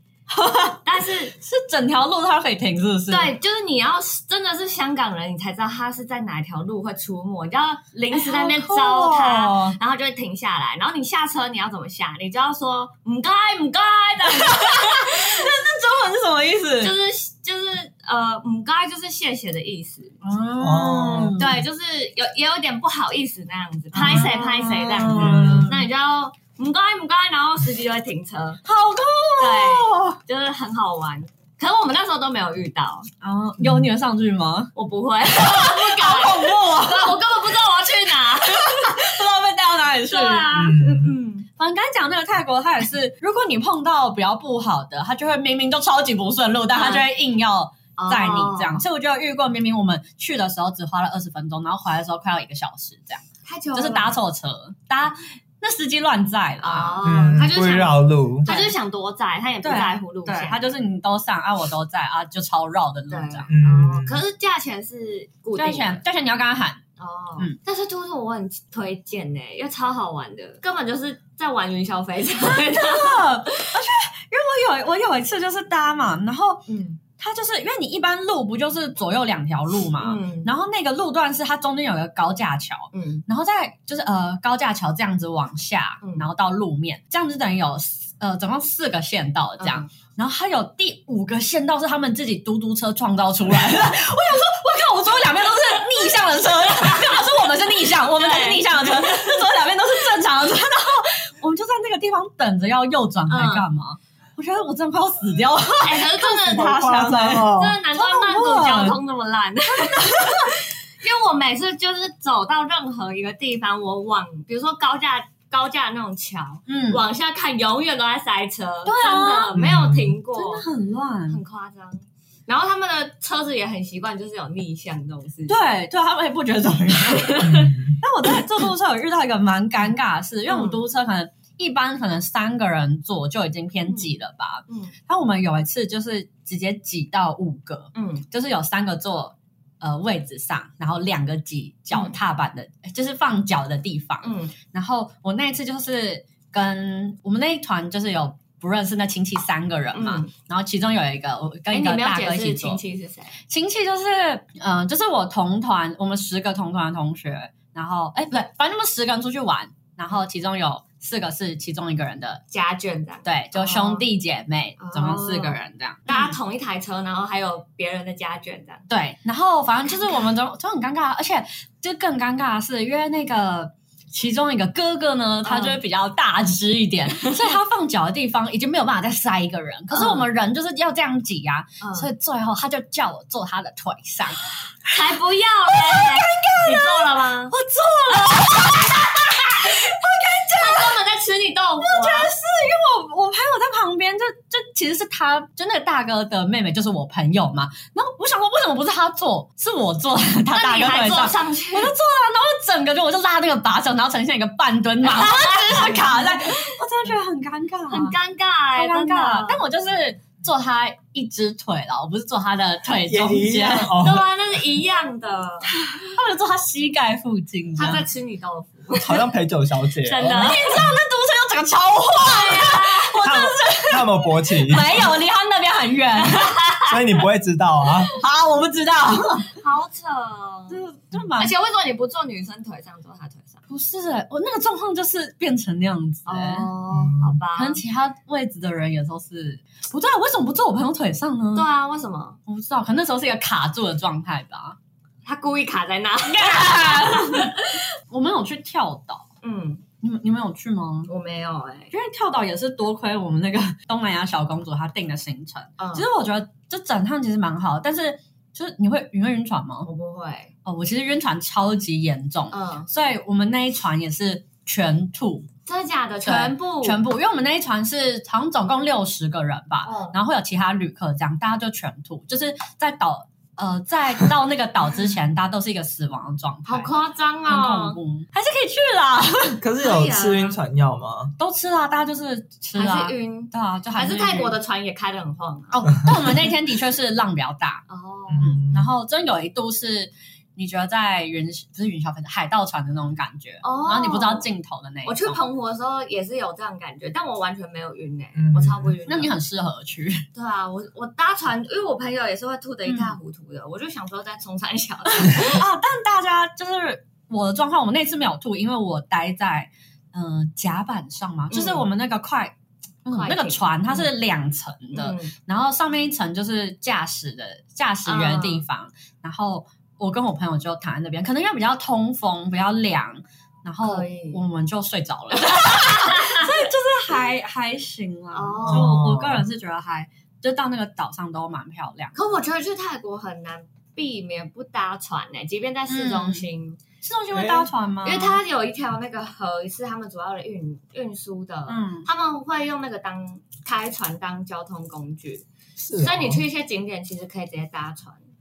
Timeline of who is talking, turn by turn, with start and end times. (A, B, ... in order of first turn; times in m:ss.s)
0:00.3-0:03.3 A
0:00.8-0:01.4 B
0:03.1-0:15.5 B
0:08.1-0:09.8 A
0:14.2-0:16.9 A
0:16.8-0:20.2 B
0:20.2-0:21.6 A
0:20.6-0:21.4 C
0:21.4-0:28.6 B
0:23.9-0:25.8 A
0:25.1-0:25.7 C
0:28.6-0:30.2 A
0:29.4-0:33.1 B
0:33.2-0:34.7 A
0:34.7-0:39.1 B
0:35.2-0:37.2 A
0:38.4-0:40.5 A
0:40.1-0:41.5 B
0:40.5-0:41.1 C
0:41.6-0:57.0 A
0:46.7-0:47.0 B
0:48.0-0:48.8 B
0:53.4-0:54.1 B
0:56.6-1:00.7 B
0:57.0-0:58.5 C
0:58.4-0:58.7 A
0:59.6-1:03.5 A
1:03.1-1:06.0 B
1:03.5-1:04.2 C
1:05.6-1:06.8 A
1:07.0-1:13.7 B
1:12.6-1:49.0 A
1:16.7-1:17.0 B
1:20.0-1:20.5 B
1:22.9-1:23.2 B
1:26.0-1:26.3 B
1:29.6-1:29.9 B
1:35.4-1:37.4 B
1:38.1-1:39.5 B
1:43.3-1:43.6 B
1:45.8-1:46.8 B
1:46.4-1:47.8 C
1:47.4-2:00.6 B
1:49.7-1:50.5 A
1:56.7-1:57.0 A
1:58.8-1:59.6 A
1:59.5-2:00.1 C
2:00.3-2:01.4 A
2:01.3-2:05.6 B
2:05.5-2:32.8 A
2:07.4-2:08.0 C
2:07.4-2:07.7 B
2:10.5-2:10.8 B
2:14.7-2:14.9 B
2:17.9-2:18.2 B
2:21.9-2:22.2 B
2:24.2-2:24.5 B
2:29.9-2:30.3 B
2:31.7-2:33.3 B
2:33.5-2:42.4 A
2:42.5-2:44.0 B
2:43.2-2:46.4 A
2:44.8-2:48.9 B
2:48.9-3:04.4 A
2:49.9-2:50.2 B
2:55.4-2:55.8 B
2:57.1-2:57.5 B
2:59.9-3:00.3 B
3:01.8-3:02.1 B
3:04.8-3:07.5 B
3:05.6-3:11.0 A
3:10.5-3:12.3 B
3:11.8-3:28.2 A
3:20.5-3:21.9 B
3:25.0-3:26.7 B
3:27.9-3:29.6 B
3:28.7-3:33.9 A
3:33.1-3:34.3 C
3:34.0-3:35.7 B
3:35.7-3:38.0 A
3:37.8-3:39.2 B
3:39.0-3:40.5 C
3:40.0-3:40.8 B
3:40.3-3:46.6 A
3:42.2-3:43.2 B
3:43.2-3:45.1 C
3:46.2-3:47.0 B
3:46.9-3:48.1 C
3:48.1-3:49.5 A
3:49.6-3:50.8 B
3:50.7-3:51.5 A
3:51.4-3:53.6 B
3:53.7-3:56.7 A
3:56.2-3:57.8 B
3:56.9-3:57.4 C
3:57.6-4:01.7 A
4:01.5-4:02.4 B
4:02.4-4:04.8 A
4:05.2-4:07.8 B
4:06.2-4:07.5 A
4:08.1-4:09.2 A
4:09.4-4:09.8 B
4:10.0-4:11.1 A
4:11.1-4:11.9 B
4:11.9-4:19.9 A
4:15.8-4:16.1 B
4:19.8-4:20.5 B
4:20.6-4:25.5 A
4:22.5-4:22.9 B
4:25.6-4:27.0 B
4:26.2-4:36.9 A
4:29.8-4:30.2 B
4:36.6-4:38.0 B
4:37.5-4:39.6 A
4:39.6-4:41.3 C
4:39.8-4:40.6 B
4:41.4-4:44.5 A
4:42.7-4:46.1 B
4:45.7-4:47.8 A
4:47.9-4:48.6 B
4:48.3-4:48.9 C
4:48.4-4:55.4 A
4:53.6-4:54.5 B
4:55.0-4:59.3 B
4:58.3-4:59.0 C
4:59.0-5:00.2 A
5:00.3-5:05.6 B
5:02.9-5:03.2 A
5:05.1-5:12.5 A
5:11.5-5:11.9 B
5:13.0-5:32.1 A
5:13.1-5:14.1 B
5:14.9-5:15.3 B
5:18.0-5:18.6 B
5:23.8-5:24.4 B
5:25.5-5:26.5 B
5:28.3-5:29.0 B
5:28.6-5:29.4 C
5:32.1-5:36.8 B
5:35.9-5:36.5 A
5:37.0-5:38.4 A
5:37.3-5:37.7 C
5:38.0-5:45.4 B
5:41.7-5:42.1 A
5:45.8-5:46.4 C
5:46.0-5:48.2 B